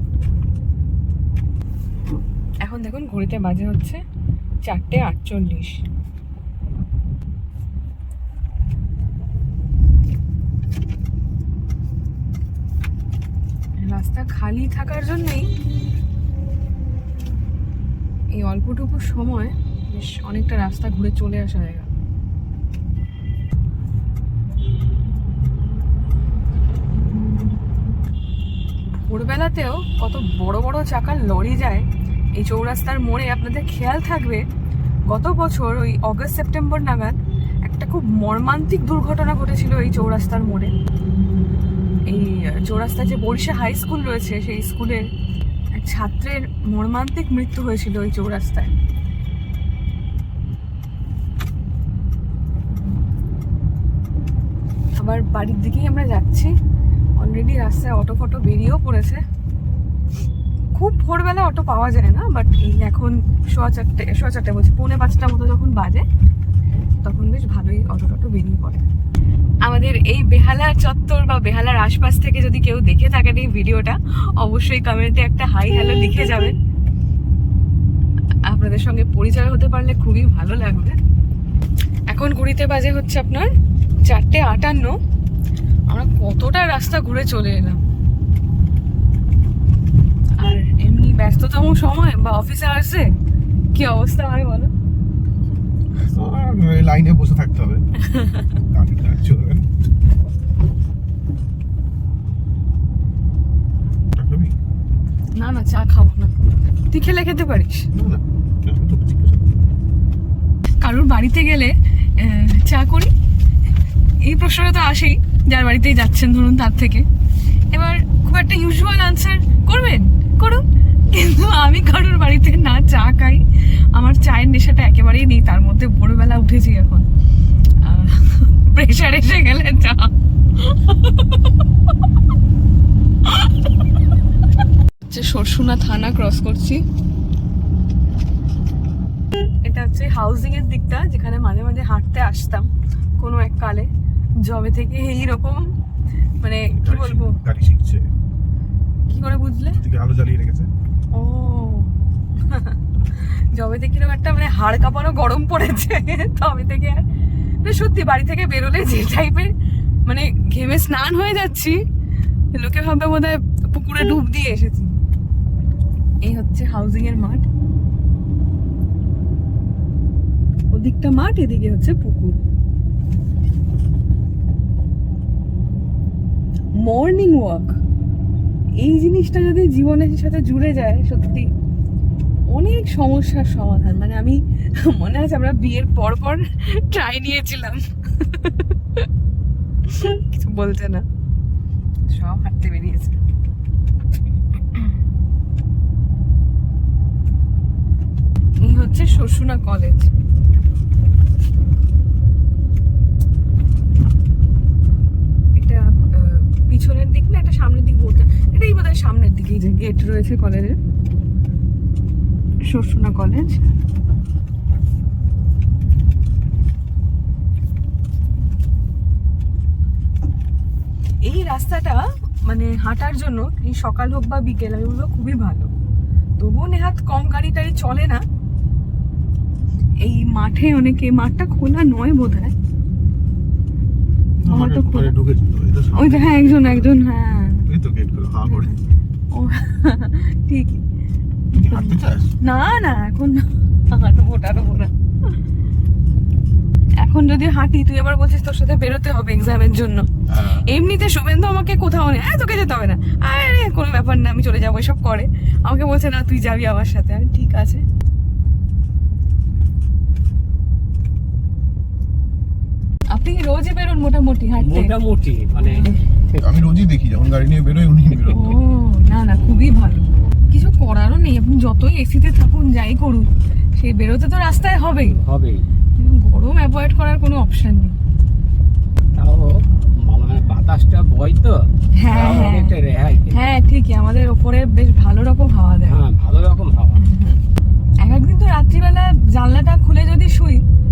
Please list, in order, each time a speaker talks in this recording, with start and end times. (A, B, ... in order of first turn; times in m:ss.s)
0:02.6-0:04.0 A
0:04.6-0:05.8 A
0:13.8-0:15.5 A
0:18.4-0:21.9 A
0:29.1-0:31.8 A
0:32.4-0:34.4 A
0:35.1-0:40.7 A
0:42.1-0:45.0 A
0:45.8-0:48.7 A
0:55.0-0:56.5 A
0:57.2-0:59.2 A
1:00.8-1:06.0 A
1:07.0-1:08.9 A
1:09.6-1:16.6 A
1:18.5-1:21.0 A
1:22.1-1:23.5 A
1:24.1-1:25.0 A
1:25.9-1:27.8 A
1:30.4-1:33.1 A
1:33.8-1:34.7 A
1:36.0-1:37.8 B
1:38.0-1:38.5 A
1:38.6-1:39.7 B
1:44.2-1:44.6 B
1:45.4-1:46.4 A
1:46.9-1:47.9 A
1:47.9-1:49.6 B
1:50.8-1:53.1 A
1:54.2-1:57.0 A
1:57.7-2:07.1 A
2:07.8-2:11.5 A
2:15.1-2:16.8 A
2:19.6-2:23.9 A
2:24.4-2:25.7 A
2:26.4-2:27.4 A
2:26.7-2:28.1 B
2:29.1-2:29.8 A
2:29.7-2:30.7 B
2:31.1-2:32.8 A
2:33.5-2:37.0 A
2:37.6-2:39.5 A
2:40.1-2:41.8 A
2:42.5-2:45.0 A
2:46.2-2:47.5 A
2:50.7-2:52.4 A
2:56.8-2:57.8 A
2:58.8-3:01.5 A
3:02.5-3:09.1 A
3:09.8-3:11.0 A
3:12.1-3:13.2 A
3:14.7-3:15.0 A
3:18.6-3:20.1 A
3:25.5-3:30.8 A
3:32.7-3:33.7 A
3:41.2-3:45.7 A
3:46.4-3:48.2 A
3:50.0-3:52.5 A
3:54.4-3:57.0 B
3:54.5-3:55.2 A
3:56.0-3:57.7 A
3:57.7-3:58.7 B
3:58.5-3:58.8 A
3:59.3-4:00.8 A
4:01.5-4:02.3 B
4:01.7-4:04.9 A
4:07.0-4:10.1 A
4:10.3-4:10.7 B
4:10.6-4:17.8 A
4:23.1-4:25.0 A
4:24.6-4:26.5 C
4:25.6-4:25.9 A
4:26.4-4:28.6 B
4:28.3-4:35.2 A
4:35.0-4:35.6 C
4:36.0-4:38.0 A
4:39.2-4:43.4 C
4:42.0-4:42.8 A
4:43.3-4:46.0 A
4:45.9-4:47.0 C
4:47.0-4:47.4 A
4:48.0-4:50.6 A